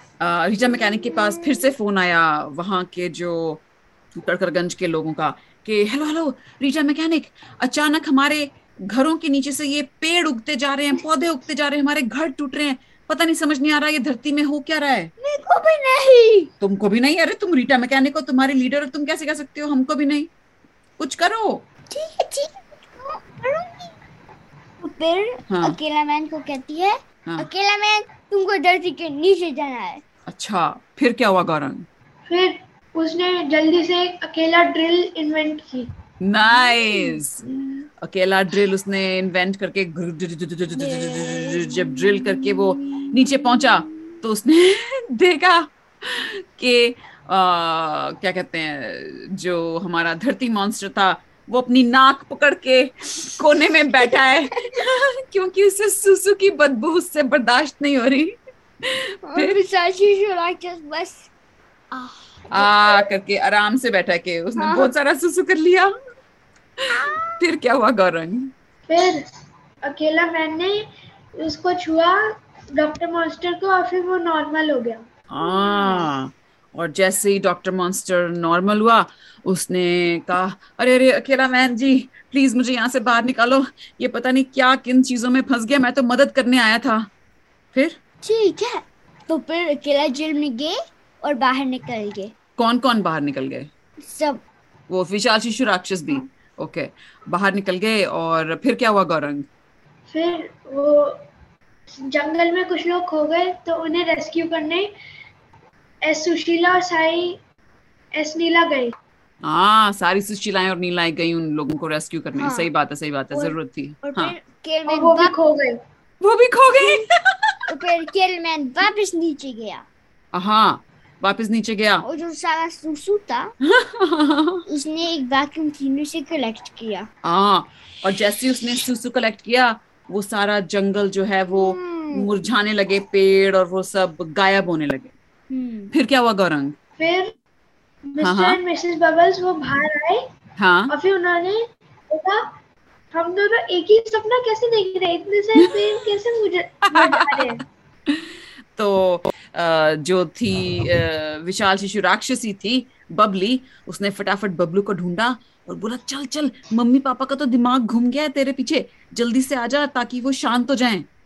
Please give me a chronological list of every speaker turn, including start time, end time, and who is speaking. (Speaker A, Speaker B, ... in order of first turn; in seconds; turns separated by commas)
Speaker A: 0.2-15.1, Speaker B: 15.2-16.5, Speaker A: 16.6-20.3, Speaker A: 21.0-21.6, Speaker B: 21.9-23.9, Speaker B: 24.8-30.0, Speaker A: 25.5-25.8, Speaker A: 30.3-31.9, Speaker C: 32.3-35.9, Speaker A: 36.2-37.4, Speaker B: 36.6-37.2, Speaker A: 38.0-59.6, Speaker B: 40.8-41.9, Speaker B: 54.1-54.8, Speaker B: 59.2-61.3, Speaker B: 61.9-63.0, Speaker A: 62.5-65.9, Speaker B: 64.6-64.9, Speaker A: 66.8-68.5, Speaker B: 66.9-67.4, Speaker C: 68.9-69.2, Speaker C: 69.8-70.8, Speaker C: 71.4-75.0, Speaker A: 75.3-87.1, Speaker A: 87.7-88.0, Speaker B: 88.2-92.3, Speaker A: 92.6-93.7, Speaker B: 94.0-94.4, Speaker A: 94.9-99.5, Speaker C: 100.1-101.2, Speaker C: 102.0-104.9, Speaker C: 106.0-107.4, Speaker C: 108.2-108.9, Speaker A: 109.4-114.3, Speaker B: 112.4-112.7, Speaker B: 113.3-115.3, Speaker C: 114.9-115.8, Speaker A: 116.2-117.7, Speaker B: 116.8-117.0, Speaker B: 117.7-119.8, Speaker A: 120.3-122.0, Speaker B: 122.0-123.5, Speaker A: 123.6-124.6, Speaker B: 124.7-127.1, Speaker A: 127.2-135.1, Speaker B: 131.5-132.3, Speaker B: 135.5-135.9, Speaker A: 135.9-136.7, Speaker C: 137.0-137.3, Speaker C: 138.1-140.2, Speaker A: 138.2-138.6, Speaker A: 140.6-140.9, Speaker C: 140.9-142.5, Speaker C: 143.1-147.6, Speaker A: 145.6-146.0, Speaker A: 146.9-147.5, Speaker A: 148.1-161.1